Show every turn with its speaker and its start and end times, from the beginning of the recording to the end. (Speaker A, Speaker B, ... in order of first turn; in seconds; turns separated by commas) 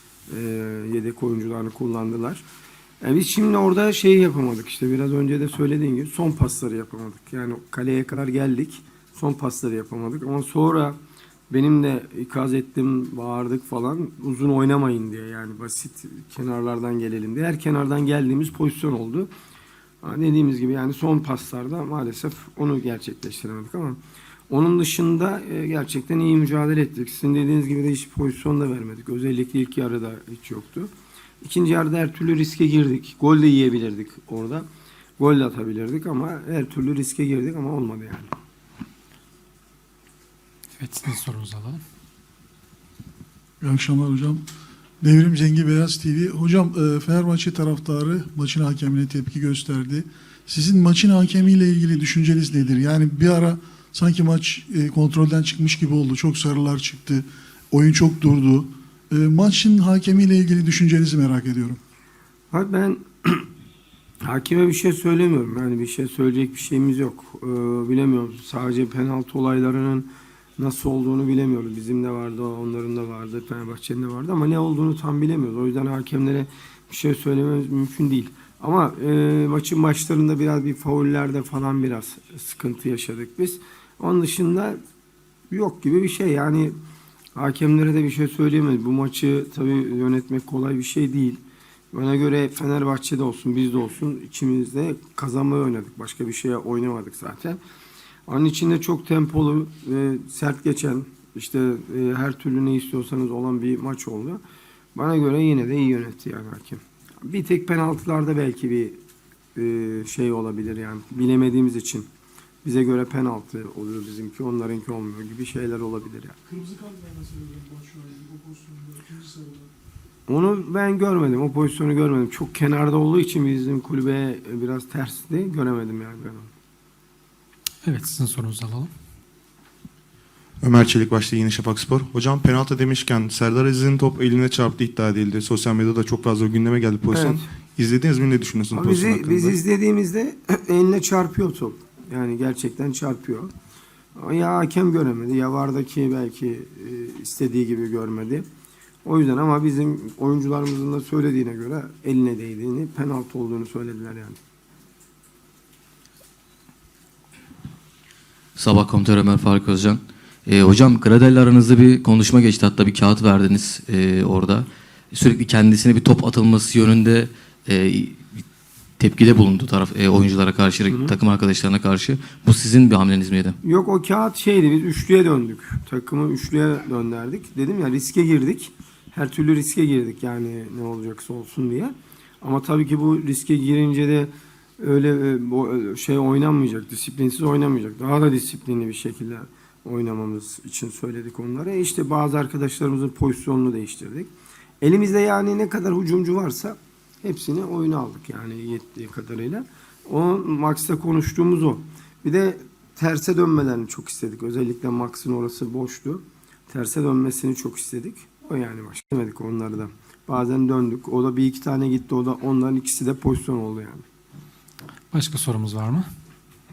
Speaker A: 0.3-2.4, Speaker A: 3.0-11.0, Speaker A: 11.5-19.3, Speaker A: 20.0-24.0, Speaker A: 24.5-30.9, Speaker A: 31.4-34.7, Speaker A: 35.2-38.3, Speaker B: 40.8-41.8, Speaker C: 43.6-44.4, Speaker C: 45.0-61.8, Speaker A: 62.5-63.5, Speaker A: 64.2-84.8, Speaker A: 85.5-86.8, Speaker A: 87.3-97.6, Speaker A: 98.3-104.4, Speaker A: 104.9-109.0, Speaker A: 109.5-112.1, Speaker A: 112.6-116.4, Speaker C: 116.5-119.7, Speaker A: 120.3-126.5, Speaker B: 127.8-128.9, Speaker D: 130.6-139.6, Speaker A: 137.1-137.4, Speaker A: 138.7-143.5, Speaker A: 144.2-148.4, Speaker A: 149.0-154.4, Speaker E: 158.6-168.2, Speaker E: 169.0-173.6, Speaker A: 170.9-171.2, Speaker A: 173.6-214.0, Speaker B: 215.1-216.1